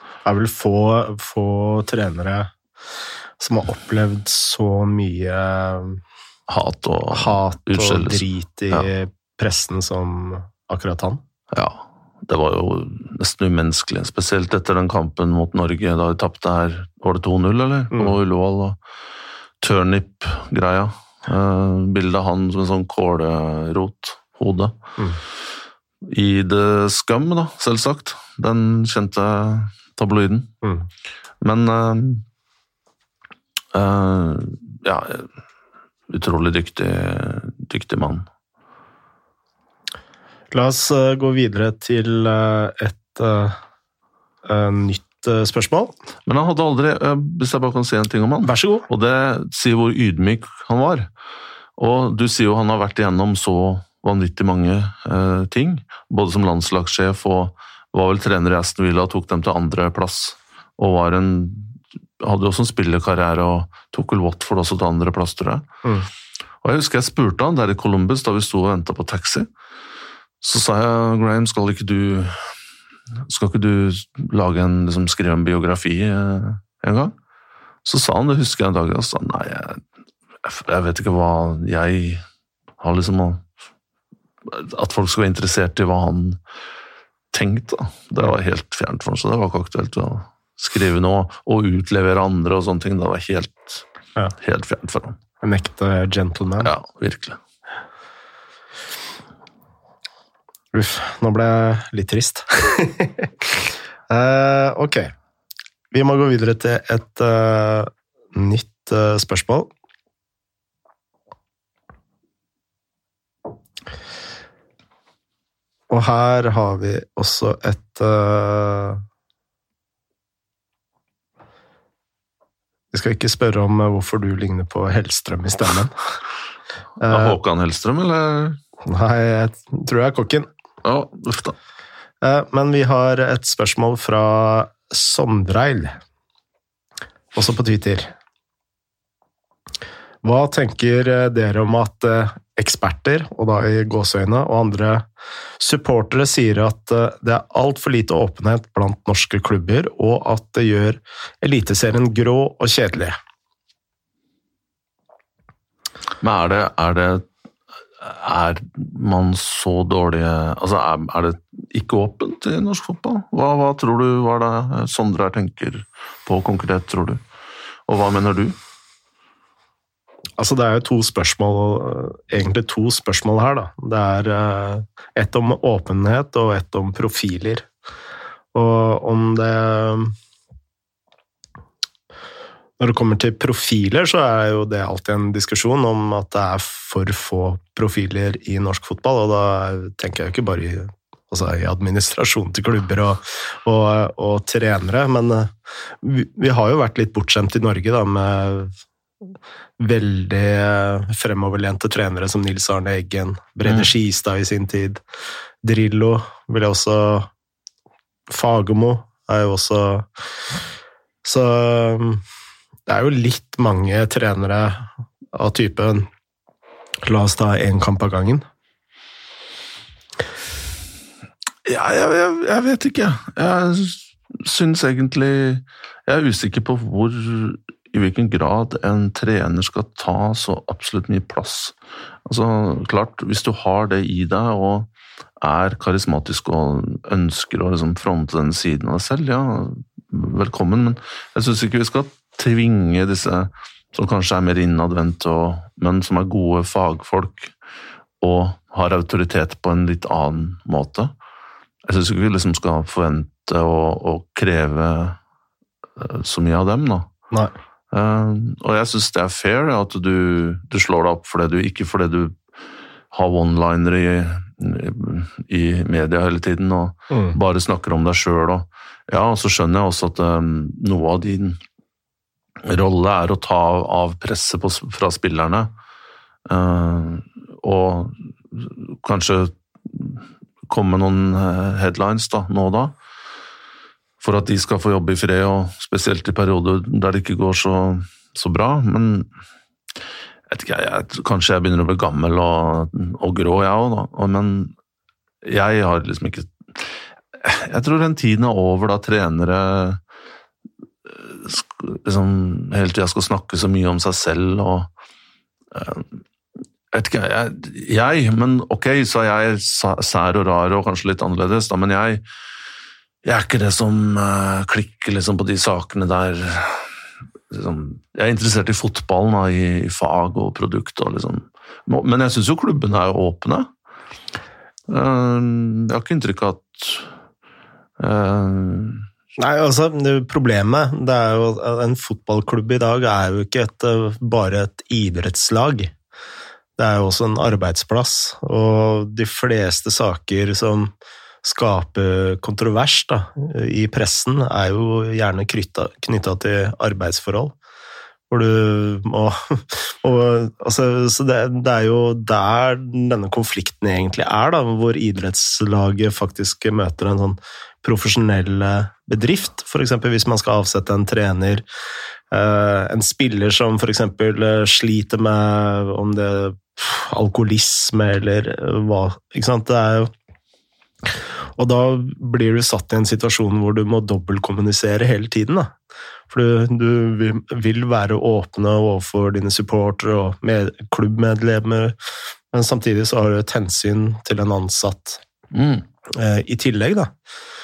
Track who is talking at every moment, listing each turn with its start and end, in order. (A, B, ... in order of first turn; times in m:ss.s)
0:00.2-0:02.5 A
0:03.4-0:06.0 A
0:06.5-0:08.9 B
0:07.1-0:11.2 A
0:11.5-0:18.8 B
0:19.6-0:24.8 B
0:26.0-0:30.5 B
0:30.6-0:30.9 A
0:31.4-0:32.2 B
0:33.7-0:35.3 B
0:36.1-0:38.3 B
0:40.5-0:43.6 A
0:44.5-0:45.9 A
0:46.3-0:51.1 B
0:48.4-0:48.9 A
0:51.8-1:05.7 B
1:06.6-1:09.5 B
1:10.4-1:12.5 B
1:13.2-1:17.2 B
1:17.8-1:19.8 B
1:20.4-1:22.2 B
1:22.8-1:23.5 B
1:24.4-1:26.4 B
1:27.3-1:33.8 B
1:34.4-1:35.2 B
1:35.4-1:36.7 A
1:36.6-1:37.4 B
1:40.7-1:43.3 A
1:44.1-1:45.1 A
1:45.9-1:49.7 A
1:55.9-1:59.0 A
2:02.9-2:06.0 A
2:07.0-2:07.4 A
2:07.1-2:08.6 B
2:08.9-2:10.5 A
2:10.8-2:11.6 B
2:12.2-2:16.0 A
2:17.3-2:18.1 A
2:20.2-2:25.0 A
2:25.6-2:33.2 A
2:36.2-2:37.2 B
2:38.0-2:47.2 B
2:47.9-2:48.6 B
2:50.4-2:57.7 A
2:58.5-3:00.1 A
3:02.8-3:18.7 A
3:19.8-3:25.0 A
3:23.6-3:23.9 B
3:25.6-3:27.3 A
3:28.3-3:30.1 A
3:31.2-3:32.2 A
3:32.9-3:36.1 A
3:37.0-3:38.4 A
3:41.6-4:07.5 B
4:08.2-4:11.1 B
4:11.8-4:15.2 B
4:16.0-4:17.1 B
4:17.9-4:22.4 B
4:23.1-4:31.6 B
4:27.1-4:27.4 A
4:32.6-4:35.7 B
4:36.5-4:43.0 B
4:44.2-4:49.3 B
4:50.5-4:54.7 B
4:55.4-5:00.0 B
5:01.0-5:04.9 B
5:05.7-5:06.2 B
5:06.9-5:12.2 B
5:13.2-5:16.9 B
5:17.5-5:23.7 B
5:24.9-5:27.1 B
5:28.0-5:29.1 B
5:29.4-5:35.9 A
5:36.8-5:47.6 A
5:48.3-6:01.6 A
6:02.3-6:10.1 A
6:11.1-6:15.7 A
6:16.3-6:22.0 A
6:22.5-6:25.2 A
6:25.5-6:25.8 B
6:26.1-6:27.1 A